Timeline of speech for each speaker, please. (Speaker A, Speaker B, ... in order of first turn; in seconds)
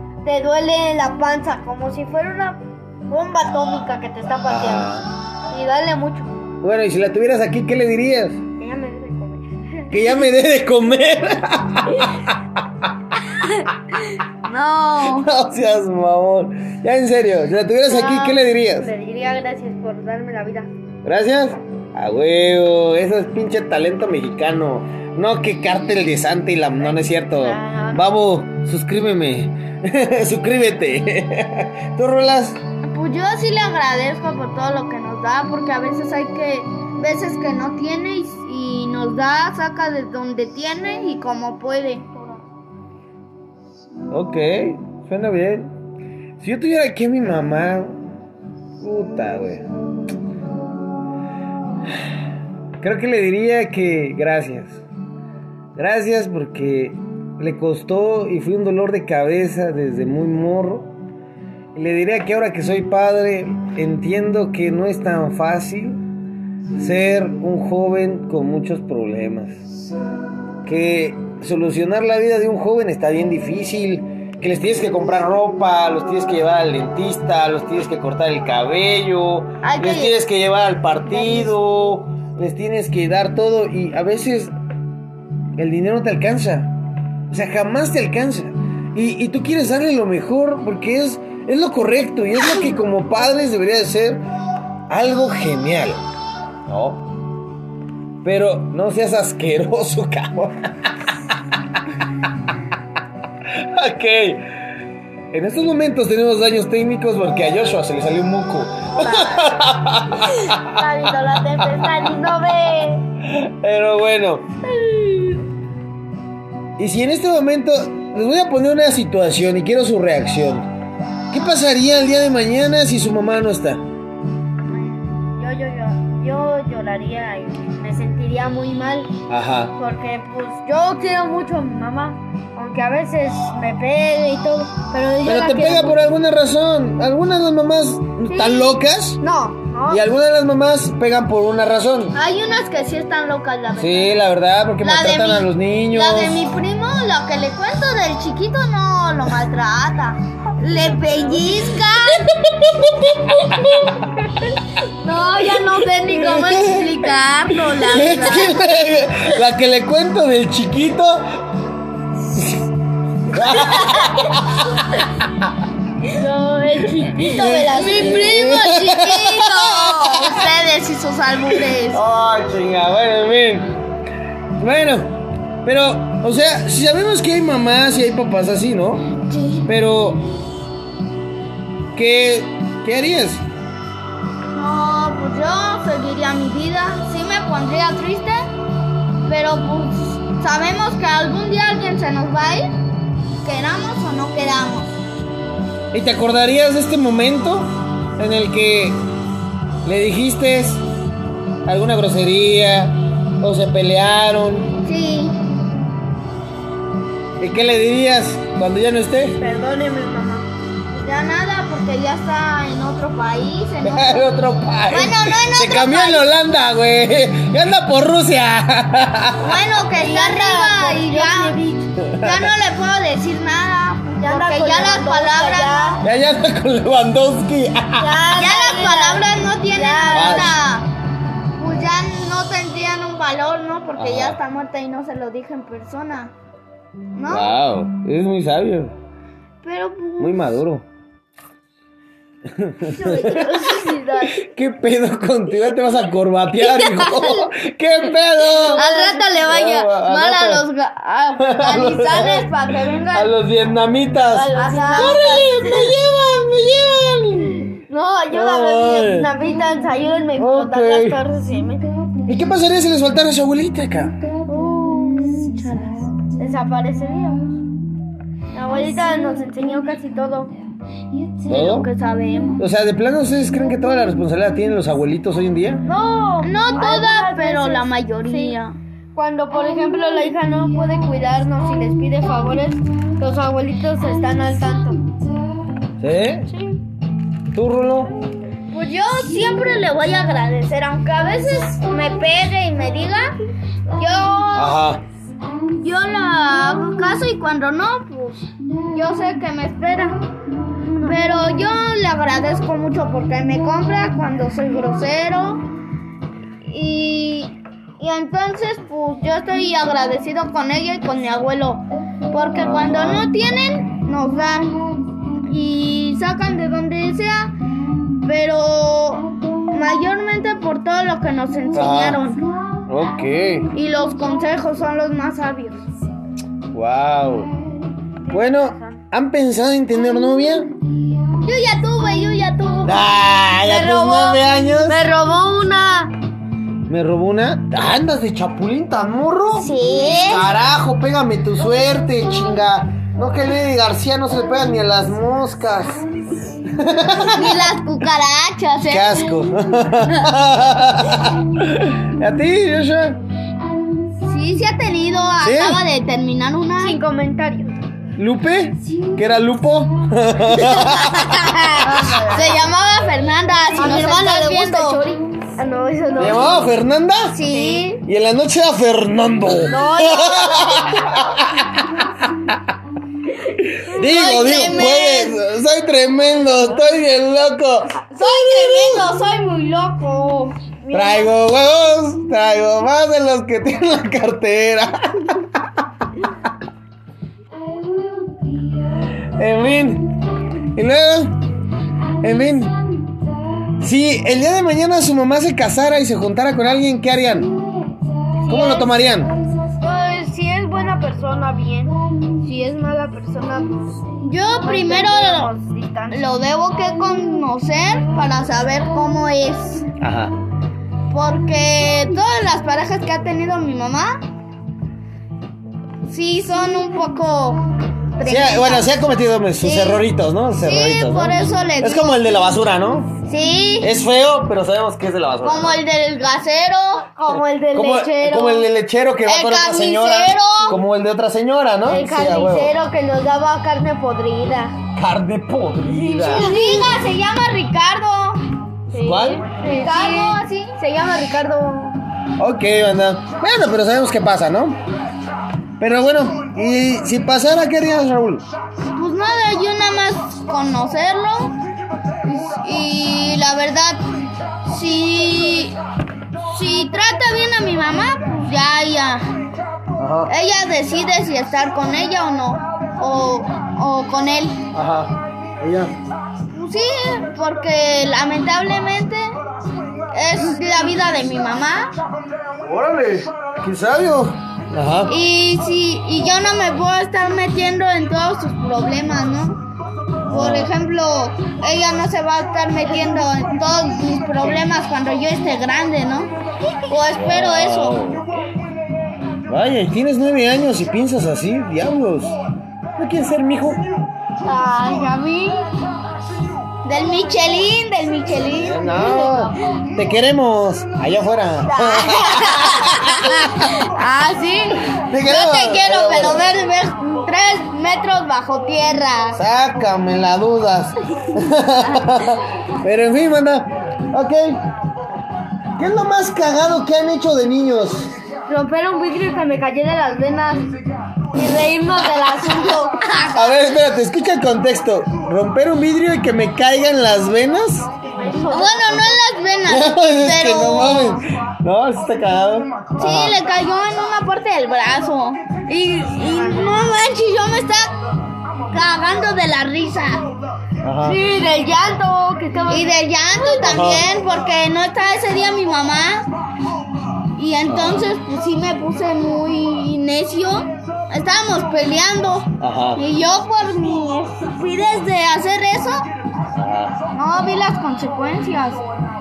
Speaker A: 0.2-4.9, 5.5-6.3, 8.6-9.9, 17.9-20.7, 27.1-28.0, 109.0-109.4, 110.4-113.0, 124.7-129.1, 129.8-136.0, 138.3-140.0, 166.1-168.8, 209.4-210.5, 219.9-221.9, 224.2-226.0, 228.0-230.5, 242.9-244.3, 248.7-249.4, 254.5-255.2, 257.9-261.9, 264.5-265.2, 266.4-267.6, 268.5-270.5, 275.9-278.5, 279.1-285.1, 300.9-301.2, 334.9-336.1, 356.8-357.8, 361.8-362.6, 363.7-366.6, 367.5-367.9, 369.7-370.5, 380.8-381.3, 399.8-406.3, 427.1-428.6, 431.9-434.8, 435.9-437.0, 438.9-442.0, 494.4-495.6, 499.0-499.3, 518.5-520.7, 521.3-523.0, 528.1-529.2, 541.0-543.8
Speaker B: 4.5-5.1, 6.6-8.4, 9.9-12.4, 15.0-18.9, 21.0-32.6, 44.1-45.7, 46.4-48.1, 48.8-49.6, 52.8-54.8, 55.7-60.9, 61.7-66.0, 66.8-69.6, 70.6-84.5, 85.5-86.7, 87.3-94.2, 94.9-96.0, 96.7-97.0, 98.2-101.1, 103.5-104.5, 105.3-110.8, 111.6-112.1, 113.2-114.5, 116.8-120.7, 121.3-123.8, 129.3-129.7, 135.2-139.2, 139.9-142.2, 143.8-146.4, 152.5-154.1, 156.0-161.4, 162.3-162.6, 163.3-165.5, 167.2-170.5, 171.5-173.7, 174.6-179.1, 179.6-180.2, 181.9-183.4, 195.9-199.0, 199.8-200.8, 201.6-204.7, 207.4-209.4, 213.8-219.6, 222.0-222.5, 226.0-228.2, 230.1-230.6, 234.0-234.4, 237.3-238.9, 240.2-240.8, 242.4-243.6, 244.3-248.9, 249.4-250.6, 251.4-252.5, 253.1-257.7, 258.3-259.3, 260.4-261.2, 262.2-264.2, 271.5-271.9, 272.6-275.8, 286.0-286.5, 287.5-288.1, 294.5-295.0, 312.6-313.3, 321.7-322.2, 322.9-323.7, 326.7-327.5, 328.3-330.7, 332.8-335.0, 336.9-346.0, 346.6-347.7, 348.9-353.2, 355.4-355.8, 358.2-361.6, 366.2-367.4, 368.0-372.5, 373.6-379.0, 380.9-385.5, 389.2-390.1, 390.7-391.4, 392.2-392.8, 393.8-397.5, 398.4-399.3, 410.0-410.3, 418.2-423.1, 423.8-425.8, 427.7-432.7, 434.9-436.5, 438.9-439.5, 442.4-444.8, 445.8-448.5, 460.0-460.3, 464.7-465.9, 472.6-475.1, 480.2-480.7, 487.1-488.2, 489.5-492.4, 492.9-493.8, 498.4-503.7, 504.9-506.5, 509.4-514.6, 515.8-518.1, 523.3-527.9, 529.7-533.4, 540.8-541.2, 543.6-544.1, 547.7-548.1, 552.6-553.0, 556.5-557.0
Speaker C: 14.4-15.3, 32.8-42.2, 79.6-80.1, 142.1-144.2, 144.8-152.3, 155.0-158.8, 163.7-164.1, 166.9-172.0, 179.3-179.7, 184.5-188.5, 189.2-192.8, 193.4-194.9, 204.8-205.4, 210.9-214.3, 214.9-216.3, 219.4-221.6, 222.2-226.0, 228.3-230.9, 231.6-236.3, 237.1-237.6, 239.6-240.6, 243.0-244.3, 246.6-247.4, 248.6-253.3, 254.3-255.9, 264.5-266.1, 271.4-272.6, 276.4-278.8, 288.7-293.4, 294.0-294.8, 295.8-300.2, 301.0-305.7, 306.6-314.9, 315.4-317.5, 318.2-322.4, 323.7-325.9, 331.4-335.2, 339.6-340.5, 347.3-349.3, 354.2-357.0, 360.5-365.2, 367.3-368.0, 369.7-370.9, 373.9-375.4, 378.1-380.7, 398.4-398.9, 404.2-405.5, 406.1-409.9, 411.1-414.2, 416.1-419.0, 419.6-420.1, 420.6-422.3, 423.3-423.9, 425.4-427.1, 429.2-430.8, 436.3-438.4, 439.6-440.8, 448.9-451.6, 452.2-455.8, 456.4-459.3, 460.3-464.6, 466.5-469.4, 470.1-472.0, 475.1-479.6, 480.3-488.0, 496.8-499.3, 501.7-509.4, 523.0-523.6, 528.5-531.2, 533.0-538.0, 538.7-540.3, 542.7-546.3, 547.4-556.1, 557.1-558.8